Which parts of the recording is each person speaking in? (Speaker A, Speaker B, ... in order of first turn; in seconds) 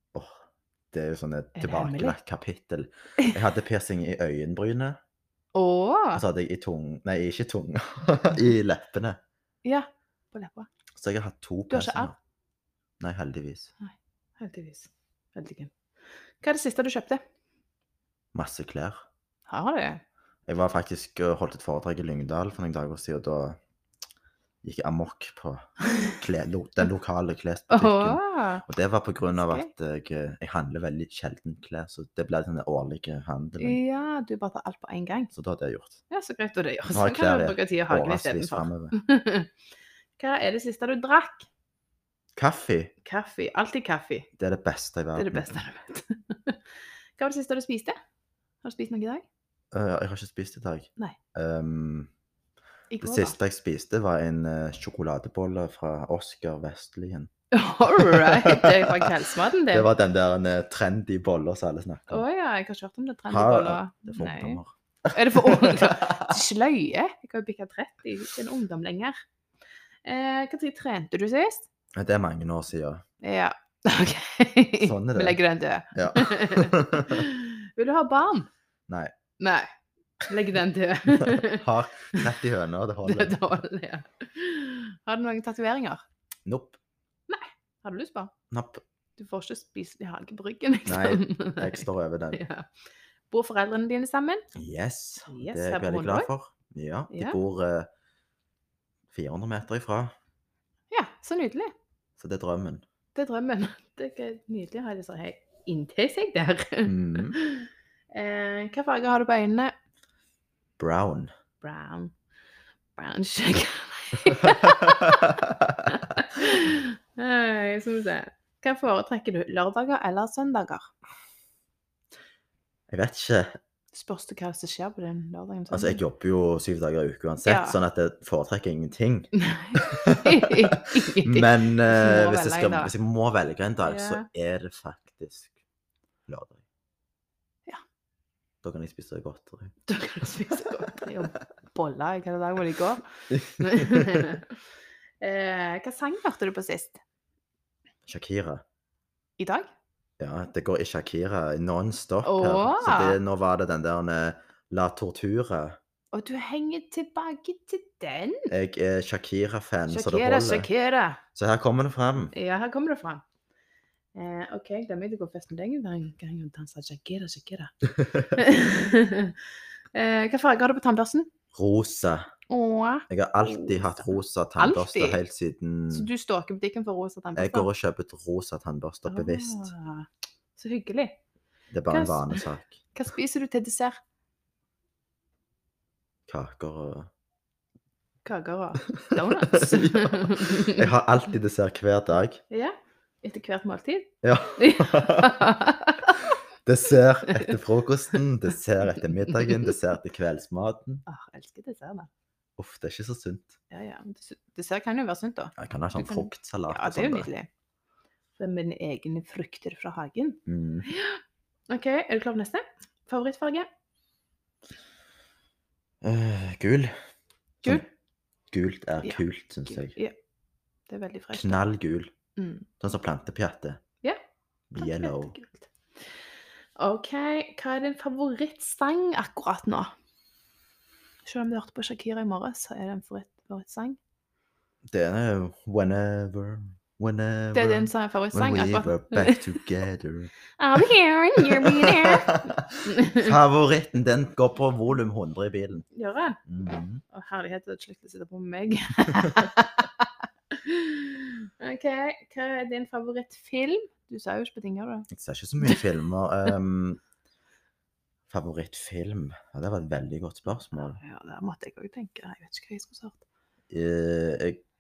Speaker A: 0.1-5.0, 6.1-9.2, 10.9-12.2, 13.0-13.7, 18.3-19.0, 20.5-23.6, 24.6-33.8, 35.3-36.0, 36.9-39.0, 42.4-42.9, 44.4-45.5, 49.7-52.1, 53.0-57.3, 57.8-59.1, 59.7-62.2, 63.3-66.4, 71.9-73.0, 74.8-75.4, 75.9-77.2, 78.9-79.2, 81.1-83.5, 86.5-86.8, 88.5-88.8, 90.9-92.4, 94.5-97.9, 99.1-100.2, 102.2-102.8, 106.8-107.4, 110.8-111.3, 115.4-115.7, 122.9-123.6, 125.7-130.5, 131.2-135.6, 136.3-136.6, 138.6-139.7, 143.3-144.3, 148.1-148.6, 150.2-155.8, 158.5-160.7, 161.3-162.3, 171.6-172.3, 173.1-176.1, 177.4-179.7, 181.7-182.8, 186.3-187.1, 189.1-192.4, 194.2-195.5, 196.7-201.0, 202.6-203.6, 205.6-207.3, 210.5-210.9, 216.0-216.9, 218.5-219.9, 221.3-222.1, 222.8-223.8, 224.7-225.3, 234.9-240.3, 241.4-245.9, 246.5-247.0, 255.1-257.0, 258.3-261.0, 263.7-264.6
Speaker B: 1.6-2.2, 5.5-6.2, 9.6-10.7, 11.7-12.1, 13.8-15.7, 16.4-17.2, 19.5-20.0, 27.7-28.6, 29.4-29.7, 33.6-35.3, 36.1-39.5, 40.2-41.5, 43.0-44.3, 45.2-46.6, 47.2-47.9, 48.6-49.2, 52.9-53.3, 57.5-59.9, 62.1-64.6, 65.1-69.2, 70.0-71.7, 73.2-78.5, 79.4-79.7, 80.3-82.3, 83.0-86.0, 87.3-88.3, 89.2-92.7, 93.3-94.5, 95.3-96.3, 97.1-97.4, 100.9-101.7, 103.2-109.7, 111.6-112.1, 113.0-120.9, 123.9-126.0, 127.4-127.8, 129.4-132.9, 133.8-134.2, 139.9-144.6, 145.2-147.0, 149.4-149.7, 152.2-153.2, 156.1-158.5, 159.9-161.2, 162.3-163.2, 164.1-167.7, 168.2-171.3, 172.5-175.2, 175.9-177.7, 179.1-181.2, 181.9-184.0, 188.2-190.9, 192.5-196.4, 197.3-197.6, 198.8-199.7, 201.1-202.1, 203.7-207.5, 208.4-213.7, 219.0-220.2, 220.9-221.7, 222.4-222.7, 224.8-225.7, 226.8-229.9, 231.2-234.0, 237.5-239.4, 240.6-242.4, 242.9-243.3, 245.9-255.1, 255.6-255.9, 260.8-263.2